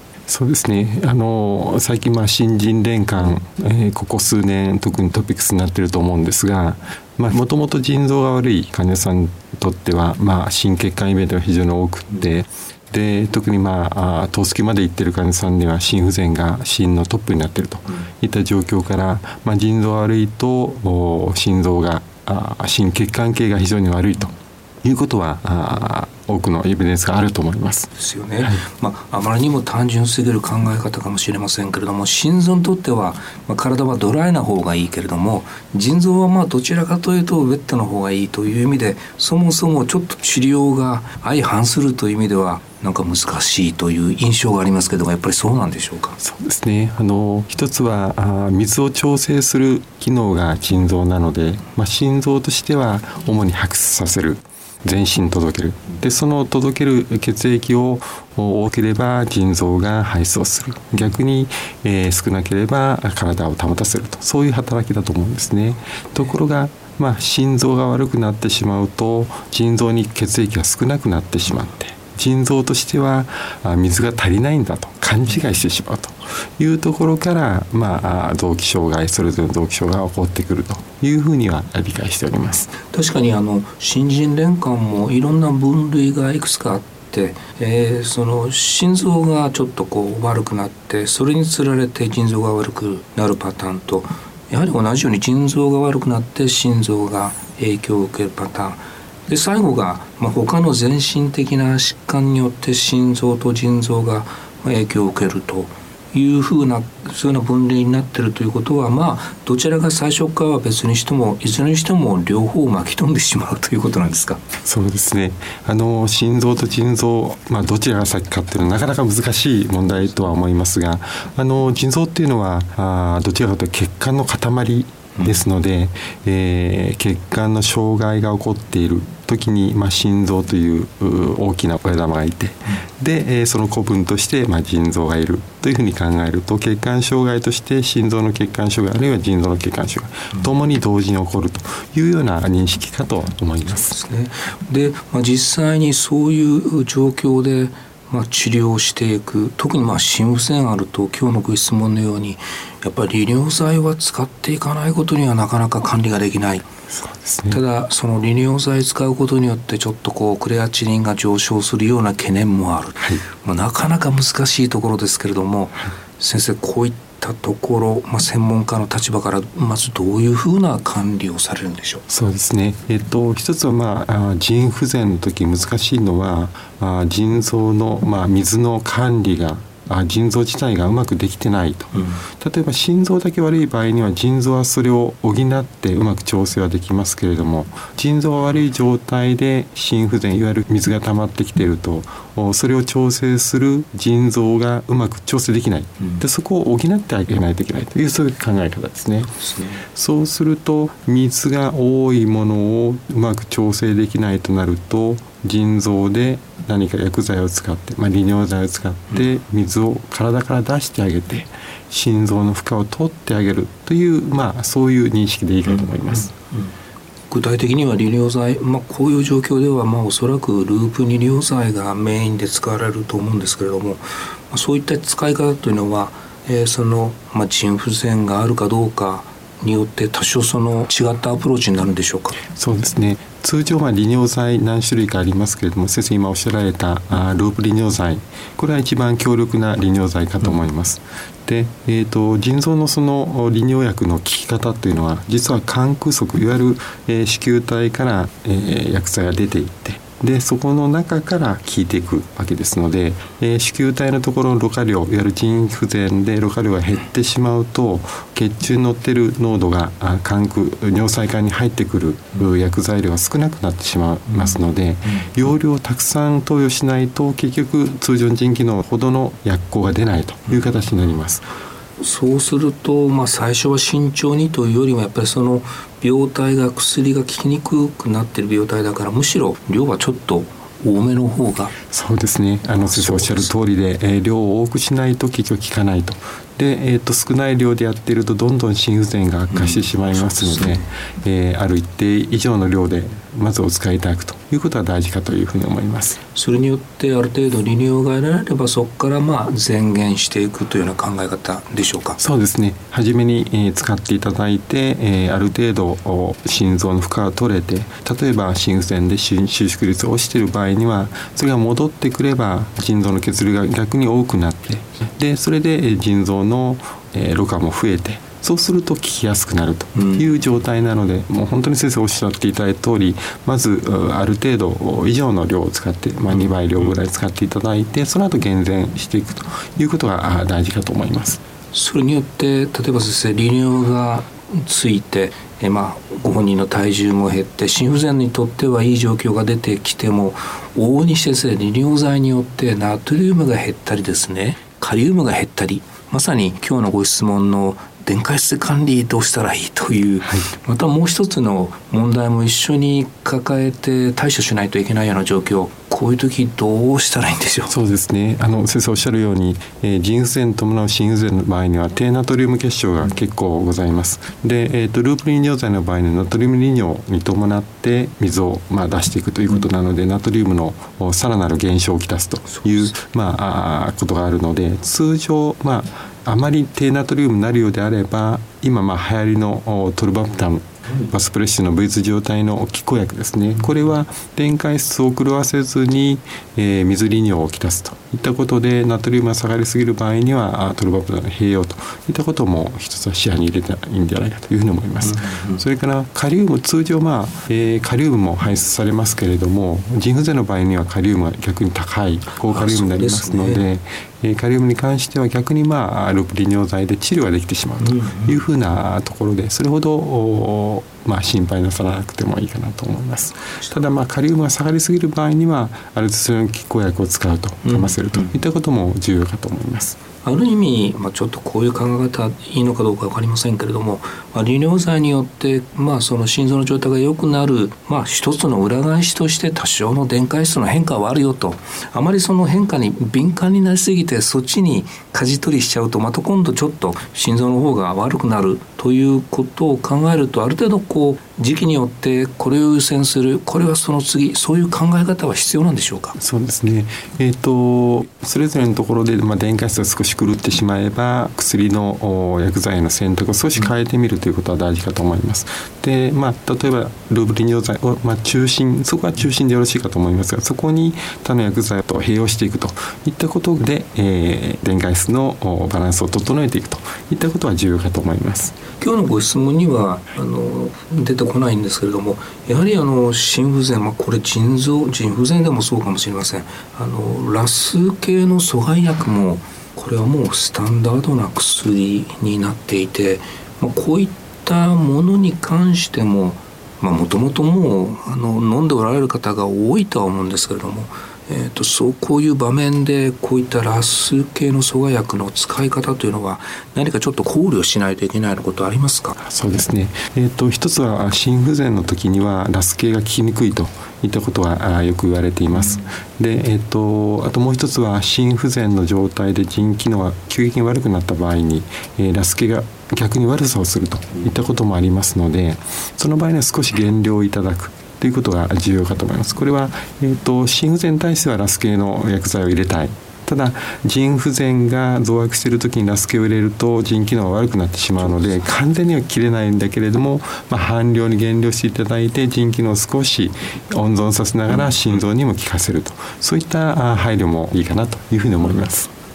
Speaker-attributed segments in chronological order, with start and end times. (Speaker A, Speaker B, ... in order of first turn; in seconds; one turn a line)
Speaker A: 0.3-28.6
Speaker B: 27.9-46.2
Speaker A: 46.2-82.7
Speaker B: 82.9-114.4
Speaker A: 114.6-143.9
Speaker B: 143.8-156.7
Speaker A: 156.9-157.6
Speaker B: 157.5-172.0
Speaker A: 172.1-199.3
Speaker B: 181.9-182.2
Speaker B: 199.4-199.8
Speaker A: 199.9-216.3
Speaker B: 215.7-216.7
Speaker B: 217.3-232.4
Speaker A: 232.5-271.4
Speaker B: 264.3-265.3
Speaker B: 272.0-281.7
Speaker A: 281.9-296.2
Speaker B: 282.8-283.5
Speaker B: 289.5-290.9
Speaker B: 296.3-302.2
Speaker A: 302.2-331.4
Speaker B: 319.9-320.2
Speaker B: 331.7-357.7
Speaker A: 350.2-350.5
Speaker A: 357.7-420.0
Speaker B: 372.5-372.9
Speaker B: 395.0-395.6
Speaker B: 402.4-403.6
Speaker B: 407.8-408.4
Speaker B: 417.6-418.3
Speaker B: 420.2-446.2
Speaker A: 446.2-468.6
Speaker B: 468.8-499.1
Speaker A: 499.2-538.9